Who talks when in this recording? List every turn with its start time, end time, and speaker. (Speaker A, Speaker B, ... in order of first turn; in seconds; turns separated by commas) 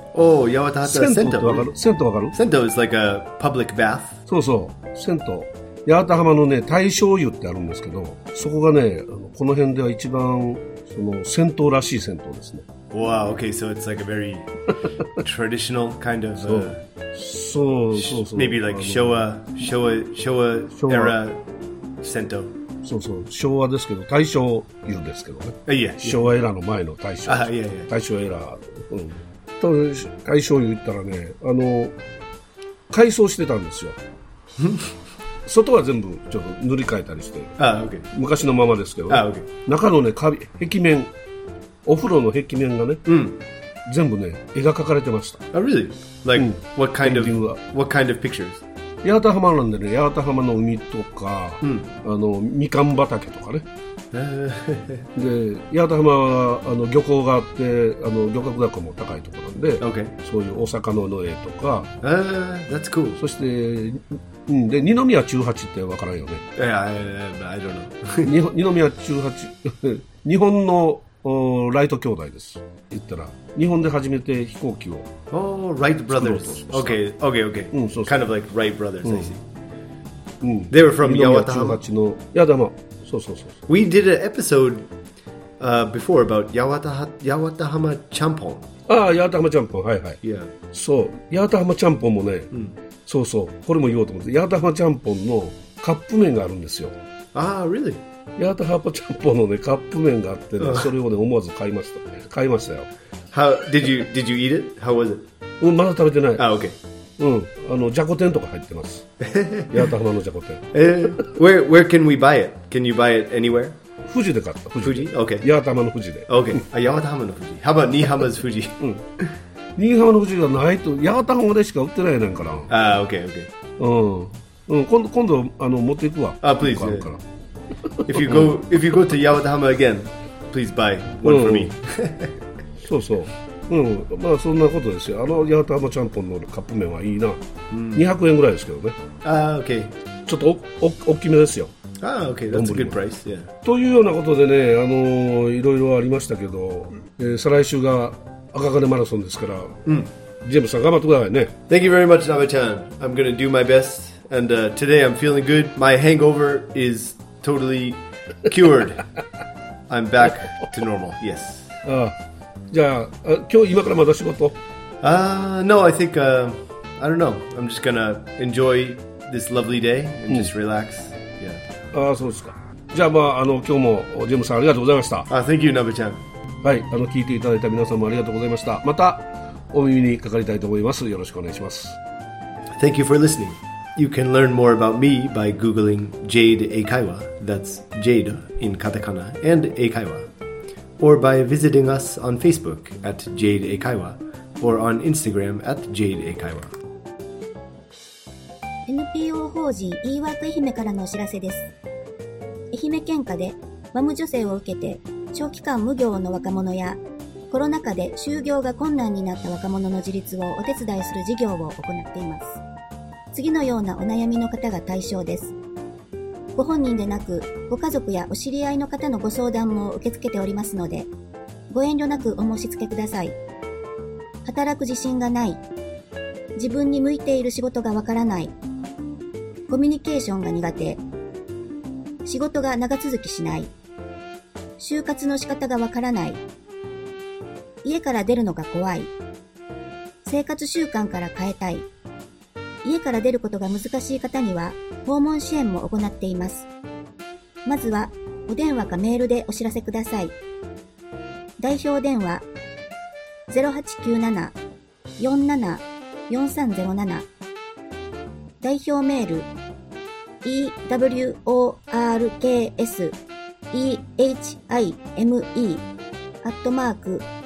Speaker A: 0.1-1.7, Speaker B: 0.8-2.4, Speaker A: 2.3-4.2, Speaker B: 4.3-12.7, Speaker A: 12.9-14.5, Speaker A: 15.1-16.8, Speaker B: 16.4-19.2, Speaker A: 17.9-21.4, Speaker B: 20.7-21.1, Speaker A: 22.0-22.5, Speaker B: 22.8-32.0, Speaker A: 25.7-26.4, Speaker A: 27.2-27.9, Speaker B: 32.9-34.0, Speaker A: 34.6-34.9, Speaker B: 35.5-37.6, Speaker A: 37.6-38.0, Speaker B: 38.1-41.1, Speaker A: 39.1-39.5, Speaker B: 41.8-43.0, Speaker A: 43.0-43.4, Speaker B: 43.9-45.4, Speaker A: 45.5-48.6, Speaker B: 46.3-47.6, Speaker B: 49.0-53.6, Speaker A: 51.6-51.9, Speaker A: 54.1-55.1, Speaker B: 55.1-61.9, Speaker A: 59.8-60.1, Speaker A: 62.0-63.2, Speaker B: 63.2-66.4, Speaker A: 66.5-68.3, Speaker B: 68.2-75.1, Speaker A: 75.3-79.4, Speaker B: 76.1-77.0, Speaker B: 77.7-78.1, Speaker B: 79.0-79.3, Speaker B: 80.4-83.6, Speaker A: 80.7-81.8, Speaker A: 83.7-84.9, Speaker A: 85.6-88.7, Speaker B: 88.9-90.2, Speaker A: 90.2-90.5, Speaker B: 90.7-92.5, Speaker B: 93.0-96.9, Speaker A: 97.3-98.0, Speaker B: 98.4-102.9, Speaker A: 100.6-100.9, Speaker A: 103.3-105.3, Speaker B: 105.6-106.4, Speaker A: 106.4-106.8, Speaker B: 107.2-109.1, Speaker A: 109.2-109.8, Speaker B: 109.7-111.3, Speaker A: 110.7-113.8, Speaker B: 114.1-116.6, Speaker A: 114.8-115.5, Speaker A: 116.3-119.3, Speaker B: 119.8-122.7, Speaker A: 122.7-123.5, Speaker B: 123.8-127.2, Speaker A: 126.4-127.1, Speaker B: 127.9-128.5, Speaker A: 128.1-132.4, Speaker B: 131.2-131.7, Speaker B: 132.8-137.4, Speaker A: 137.7-138.1, Speaker B: 137.9-139.0, Speaker A: 139.2-139.9, Speaker B: 140.3-141.7, Speaker A: 142.0-143.5, Speaker B: 142.5-143.0, Speaker B: 143.6-149.9, Speaker B: 150.4-151.6, Speaker A: 151.7-159.0, Speaker A: 159.9-161.8, Speaker B: 161.8-162.2, Speaker B: 162.7-164.6, Speaker A: 165.0-171.6, Speaker B: 171.9-175.3, Speaker A: 175.3-176.2, Speaker B: 176.6-182.0, Speaker A: 182.8-190.3, Speaker A: 191.0-196.7, Speaker C: 198.9-201.7, Speaker C: 202.7-212.6, Speaker C: 213.3-215.6, Speaker C: 216.5-221.1, Speaker C: 221.7-223.3, Speaker C: 224.4-225.6, Speaker C: 226.6-228.5, Speaker C: 229.7-231.0, Speaker C: 232.2-233.7, Speaker C: 234.8-236.4, Speaker C: 237.8-239.1, Speaker C: 240.2-241.9, Speaker C: 242.8-246.7, Speaker C: 247.6-250.3, Speaker C: 251.6-252.4, Speaker C: 253.5-254.6, Speaker C: 255.2-257.3, Speaker C: 258.6-259.5, Speaker C: 260.4-263.2, Speaker C: 263.7-265.9, Speaker C: 266.4-267.3